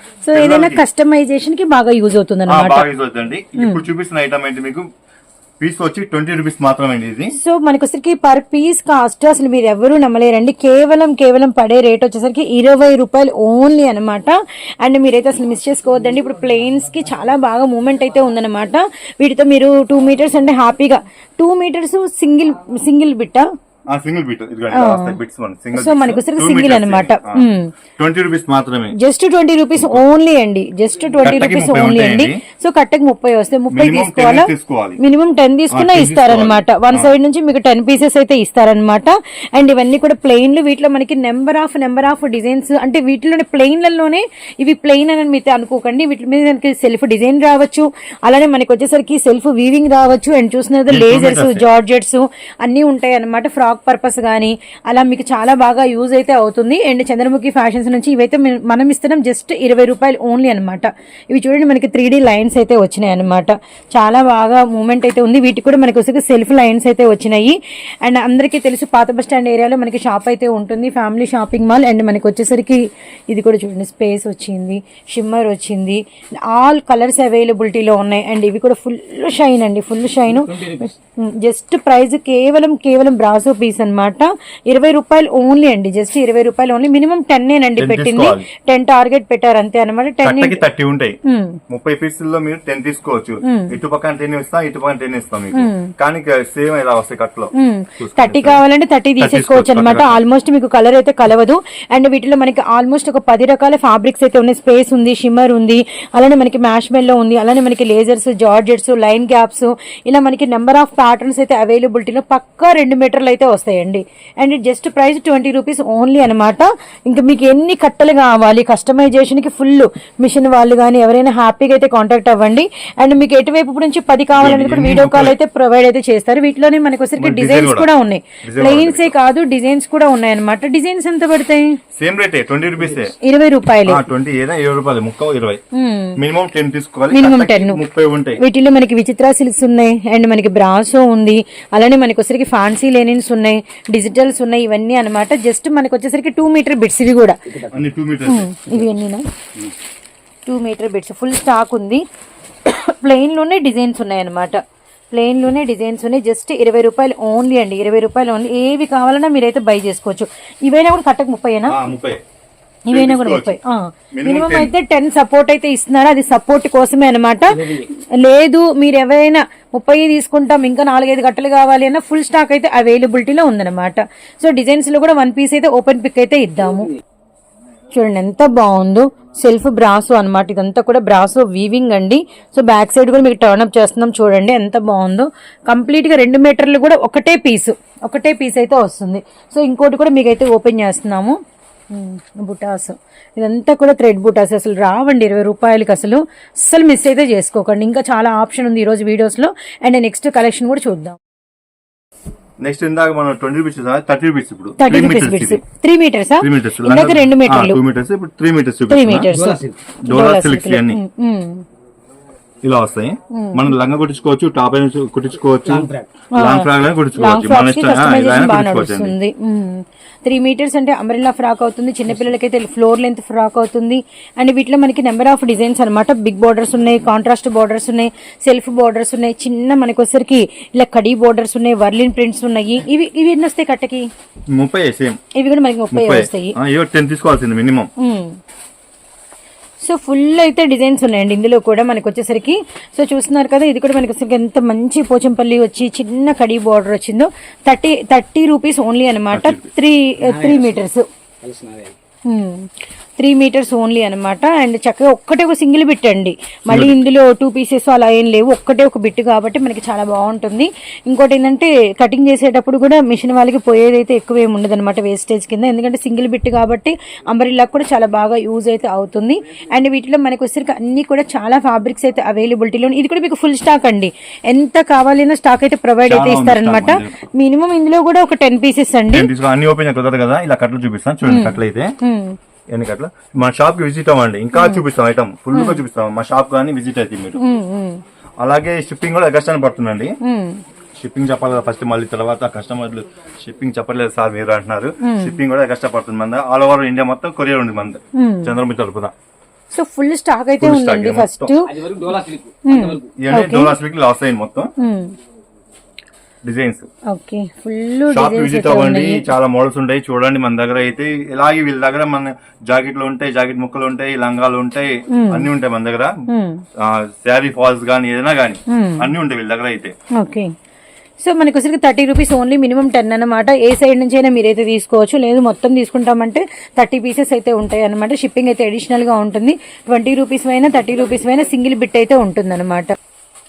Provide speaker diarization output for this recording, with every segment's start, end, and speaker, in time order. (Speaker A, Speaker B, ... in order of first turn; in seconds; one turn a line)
Speaker A: 0.2-2.9
Speaker B: 0.3-0.8
Speaker B: 2.5-4.9
Speaker A: 3.6-3.8
Speaker B: 5.6-7.3
Speaker A: 7.4-23.5
Speaker B: 23.9-27.4
Speaker A: 24.7-25.2
Speaker A: 25.7-27.7
Speaker B: 28.0-28.9
Speaker A: 28.9-90.6
Speaker B: 31.2-32.4
Speaker B: 33.7-35.0
Speaker B: 35.7-37.1
Speaker B: 50.9-51.7
Speaker C: 80.4-80.8
Speaker B: 87.8-88.5
Speaker B: 90.2-98.6
Speaker A: 91.2-91.6
Speaker A: 93.4-93.7
Speaker A: 95.5-95.9
Speaker A: 97.5-131.7
Speaker B: 99.2-100.2
Speaker B: 124.3-125.3
Speaker B: 127.2-127.9
Speaker B: 128.4-129.1
Speaker B: 131.9-133.2
Speaker A: 133.1-134.0
Speaker B: 133.8-135.6
Speaker A: 135.7-136.2
Speaker B: 136.2-138.4
Speaker A: 137.1-137.8
Speaker A: 138.4-147.6
Speaker B: 147.7-148.5
Speaker A: 148.2-149.2
Speaker A: 150.4-152.0
Speaker A: 152.6-154.6
Speaker A: 155.1-161.7
Speaker B: 161.7-162.2
Speaker A: 162.9-176.9
Speaker B: 162.9-163.6
Speaker B: 164.1-164.7
Speaker A: 177.9-191.4
Speaker A: 191.9-201.2
Speaker B: 202.6-205.6
Speaker A: 204.8-207.8
Speaker B: 206.4-209.3
Speaker A: 208.9-211.6
Speaker C: 209.3-209.8
Speaker B: 210.0-211.0
Speaker B: 212.6-219.1
Speaker A: 213.3-213.8
Speaker C: 215.7-216.1
Speaker A: 216.3-234.1
Speaker B: 234.5-235.2
Speaker A: 235.3-236.5
Speaker B: 235.9-237.9
Speaker A: 238.0-238.4
Speaker A: 239.8-251.1
Speaker B: 249.3-249.7
Speaker C: 250.2-250.8
Speaker C: 251.4-251.9
Speaker A: 252.3-279.3
Speaker B: 256.7-256.9
Speaker B: 276.1-277.2
Speaker B: 279.1-281.9
Speaker A: 281.2-282.4
Speaker B: 282.7-287.4
Speaker A: 284.5-284.8
Speaker A: 285.5-285.8
Speaker A: 287.4-288.0
Speaker B: 288.4-290.1
Speaker A: 290.2-290.6
Speaker B: 290.9-299.1
Speaker A: 295.0-295.4
Speaker A: 298.2-298.5
Speaker A: 299.7-301.8
Speaker B: 300.6-301.5
Speaker C: 301.7-303.0
Speaker A: 302.6-303.8
Speaker B: 303.2-304.7
Speaker A: 304.8-305.1
Speaker B: 306.4-306.9
Speaker A: 307.1-309.3
Speaker B: 308.1-316.1
Speaker A: 315.1-315.5
Speaker A: 316.3-316.6
Speaker B: 316.8-319.9
Speaker A: 318.7-319.1
Speaker A: 320.2-320.5
Speaker A: 321.2-332.9